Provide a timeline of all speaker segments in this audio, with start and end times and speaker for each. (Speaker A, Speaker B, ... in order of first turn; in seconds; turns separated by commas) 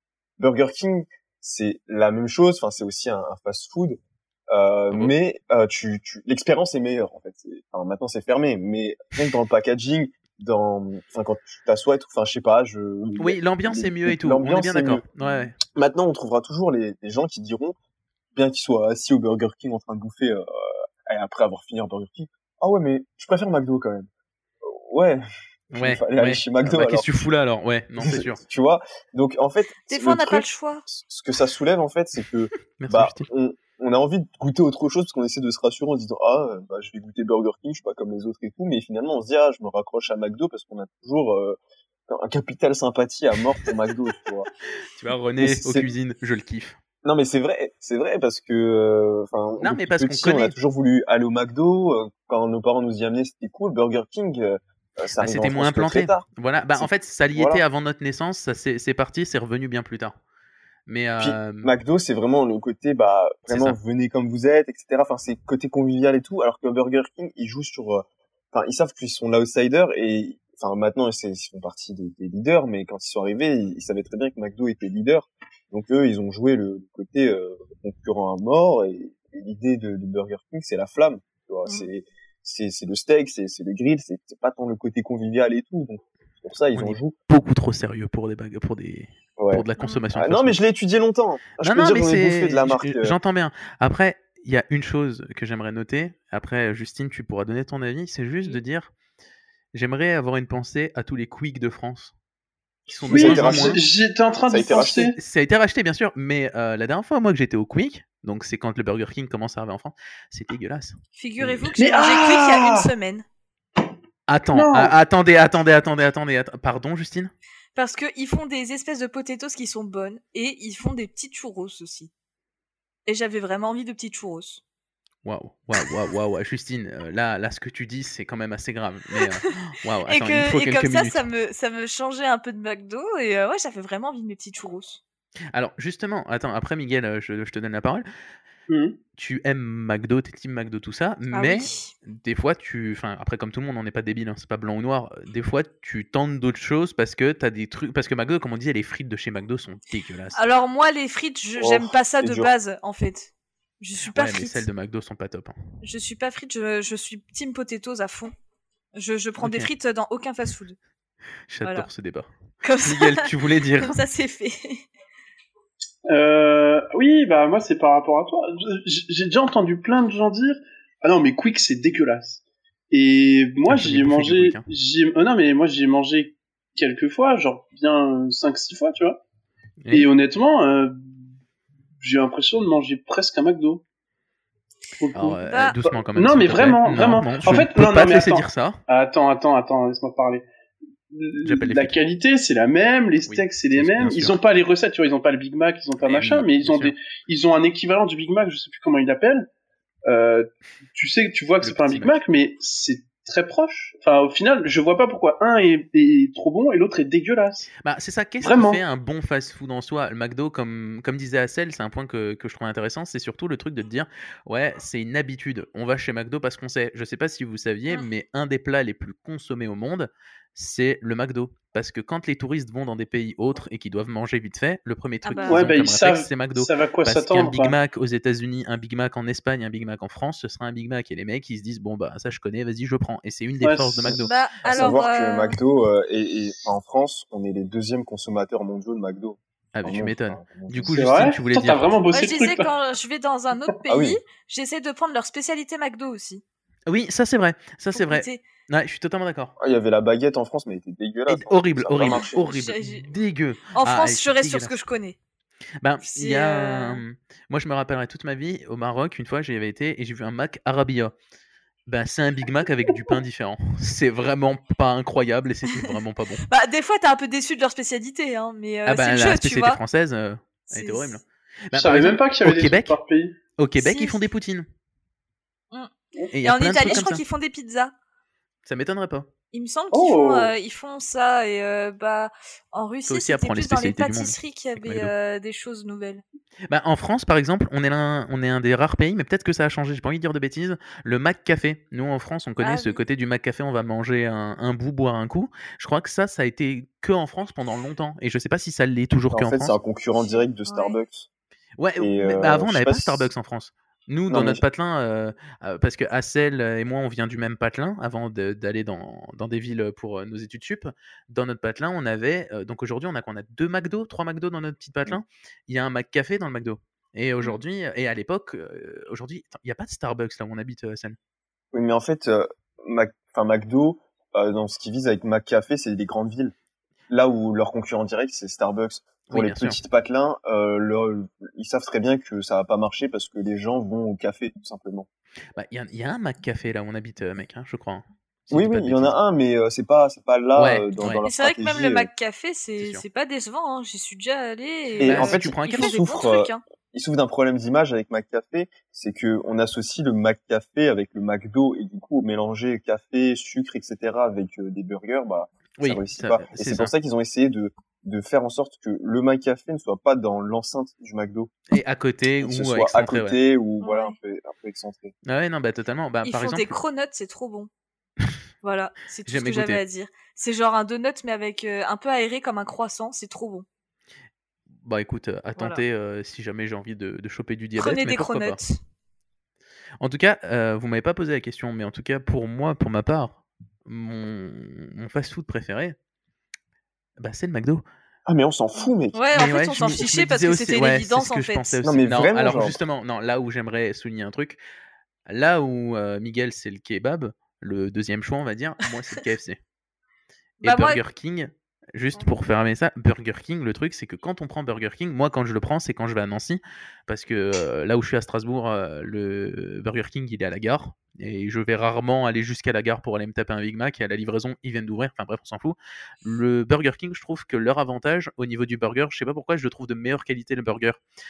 Speaker A: 0.4-4.0, Speaker A: 4.5-17.8, Speaker B: 4.9-5.2, Speaker B: 13.2-15.6, Speaker A: 18.3-24.1, Speaker A: 24.6-27.3, Speaker B: 25.7-28.4, Speaker A: 28.0-44.5, Speaker C: 29.9-30.9, Speaker B: 32.8-33.3, Speaker B: 44.9-46.8, Speaker A: 45.4-45.9, Speaker A: 47.0-57.6, Speaker B: 49.6-50.5, Speaker B: 55.2-60.1, Speaker B: 60.9-61.7, Speaker A: 61.2-87.2, Speaker B: 63.5-63.8, Speaker B: 86.7-90.6, Speaker A: 89.4-93.2, Speaker C: 89.8-90.0, Speaker B: 91.6-98.9, Speaker B: 99.7-102.1, Speaker B: 102.9-103.8, Speaker D: 103.1-105.2, Speaker A: 103.1-103.8, Speaker A: 104.5-105.2, Speaker B: 105.2-111.0, Speaker C: 111.2-113.2, Speaker D: 111.8-112.9, Speaker B: 114.3-117.3, Speaker D: 114.5-115.0, Speaker C: 117.8-122.1, Speaker C: 123.1-124.6, Speaker B: 125.2-131.2, Speaker C: 130.1-135.0, Speaker B: 135.5-138.1, Speaker D: 138.7-139.0, Speaker B: 139.2-150.4, Speaker C: 141.3-141.9, Speaker C: 150.3-154.7, Speaker A: 151.6-152.5, Speaker B: 154.1-155.6, Speaker C: 155.8-158.3, Speaker C: 158.9-160.8, Speaker B: 159.4-159.7, Speaker B: 161.5-162.3, Speaker C: 161.6-161.9, Speaker C: 162.6-164.9, Speaker B: 162.8-164.0, Speaker D: 166.1-179.2, Speaker B: 173.7-174.7, Speaker B: 179.8-180.1, Speaker D: 179.9-181.2, Speaker D: 182.0-183.8, Speaker D: 185.0-190.5, Speaker B: 185.1-188.8, Speaker C: 185.5-185.8, Speaker D: 191.1-199.5, Speaker B: 191.4-192.0, Speaker B: 193.2-194.3, Speaker B: 196.0-196.9, Speaker D: 200.1-207.7, Speaker B: 201.6-202.2, Speaker B: 207.8-234.3, Speaker D: 208.4-208.8, Speaker C: 225.3-225.7, Speaker D: 225.5-227.8, Speaker D: 233.6-234.3, Speaker C: 234.2-235.6, Speaker A: 234.7-241.0, Speaker B: 239.8-242.0, Speaker D: 240.9-242.7, Speaker C: 242.1-246.4, Speaker A: 243.9-244.2, Speaker B: 246.9-249.5, Speaker C: 247.9-248.4, Speaker A: 249.6-252.5, Speaker B: 251.3-254.8, Speaker C: 252.1-253.1, Speaker C: 253.8-255.2, Speaker B: 255.8-261.1, Speaker C: 256.0-257.0, Speaker B: 261.9-266.4, Speaker C: 266.5-269.8, Speaker B: 268.9-273.0, Speaker C: 270.7-271.1, Speaker D: 271.7-273.4, Speaker B: 273.6-274.7, Speaker C: 273.8-274.3, Speaker B: 276.3-277.2, Speaker C: 276.4-277.9, Speaker B: 278.7-279.3, Speaker C: 279.5-286.2, Speaker D: 279.9-280.5, Speaker B: 283.1-285.1, Speaker B: 286.7-299.8, Speaker C: 292.6-293.0, Speaker A: 299.3-301.3, Speaker C: 300.2-301.0, Speaker B: 301.8-321.2, Speaker A: 302.0-303.3, Speaker A: 304.3-304.6, Speaker A: 321.7-326.5, Speaker A: 327.1-335.1, Speaker B: 329.3-329.8, Speaker B: 335.6-339.2, Speaker A: 338.5-342.1, Speaker B: 340.6-341.2, Speaker C: 341.2-346.6, Speaker B: 342.8-343.0, Speaker A: 345.0-361.5, Speaker B: 345.0-346.0, Speaker B: 355.8-356.9, Speaker B: 361.7-363.4, Speaker A: 362.4-365.1, Speaker C: 363.8-364.1, Speaker B: 365.3-366.8, Speaker C: 366.2-367.7, Speaker C: 368.6-373.6, Speaker B: 369.3-369.8, Speaker B: 374.8-378.6, Speaker C: 375.6-375.8, Speaker C: 377.8-378.8, Speaker B: 380.0-386.0, Speaker B: 387.2-387.8, Speaker A: 388.3-389.3, Speaker C: 389.1-391.8, Speaker B: 389.3-394.6, Speaker A: 391.8-392.8, Speaker B: 395.3-399.6, Speaker C: 400.6-401.0, Speaker B: 400.6-421.0